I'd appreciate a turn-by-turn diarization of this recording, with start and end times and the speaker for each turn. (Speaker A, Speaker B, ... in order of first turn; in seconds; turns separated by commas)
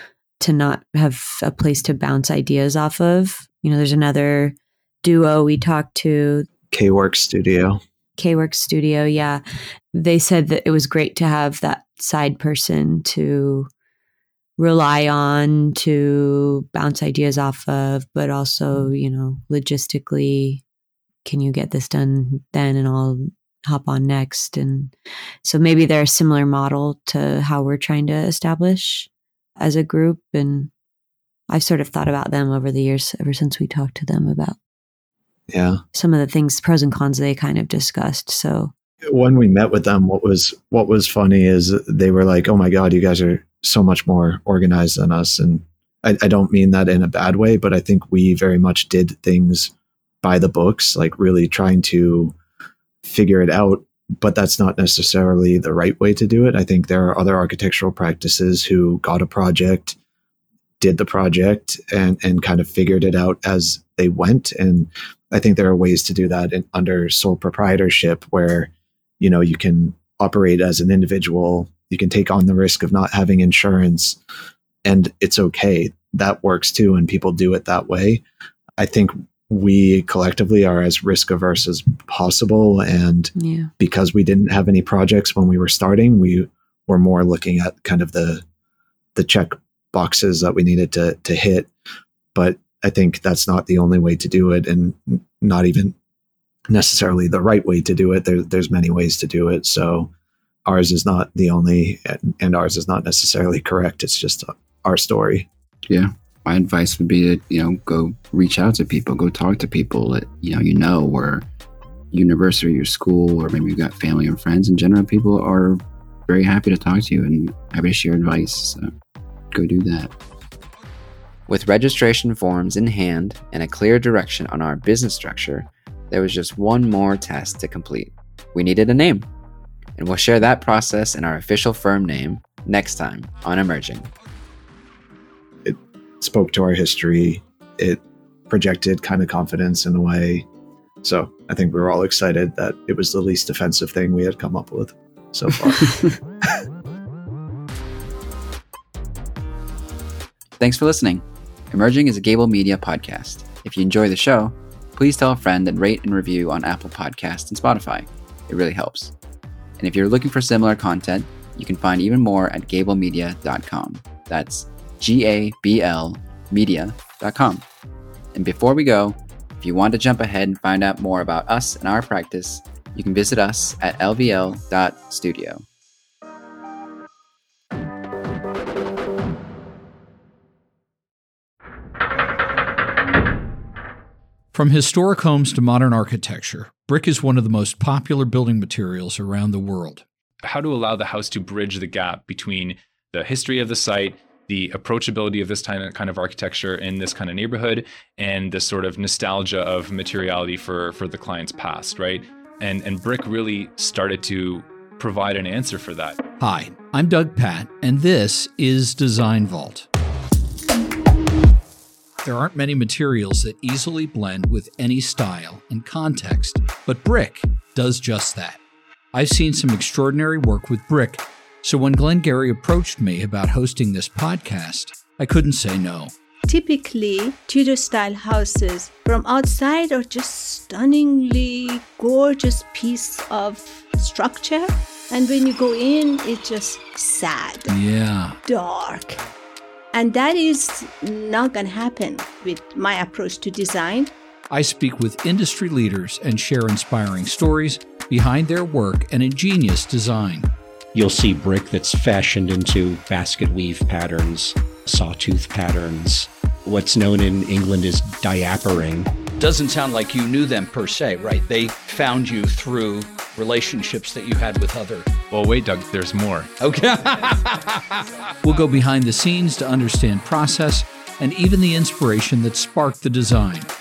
Speaker A: 0.4-6.5, Speaker B: 6.7-7.8, Speaker A: 8.2-9.4, Speaker A: 9.9-13.7, Speaker A: 14.6-20.6, Speaker A: 21.2-24.9, Speaker A: 25.4-30.7, Speaker A: 31.5-34.6, Speaker B: 35.5-35.8, Speaker A: 35.9-38.7, Speaker B: 39.1-52.3, Speaker B: 53.0-60.0, Speaker B: 60.8-74.2, Speaker B: 74.8-78.2, Speaker B: 78.8-88.4, Speaker A: 83.3-83.7, Speaker B: 89.1-91.7, Speaker B: 92.3-95.9, Speaker B: 96.7-100.1, Speaker B: 100.6-105.5, Speaker C: 105.9-111.5, Speaker C: 112.1-118.9, Speaker C: 119.5-120.1, Speaker C: 121.5-129.3, Speaker C: 130.0-134.1, Speaker B: 135.6-140.4, Speaker B: 141.0-145.9, Speaker C: 150.6-159.1, Speaker C: 159.8-167.6, Speaker C: 168.3-175.6, Speaker D: 184.5-190.0, Speaker E: 190.4-206.2, Speaker D: 206.4-209.9, Speaker D: 212.2-218.6, Speaker D: 219.1-226.1, Speaker F: 226.5-237.8, Speaker D: 237.7-238.4, Speaker F: 238.4-239.2, Speaker F: 239.9-244.1, Speaker D: 244.5-250.5, Speaker G: 250.9-259.1, Speaker D: 259.4-265.1, Speaker E: 265.3-266.5, Speaker D: 266.6-273.7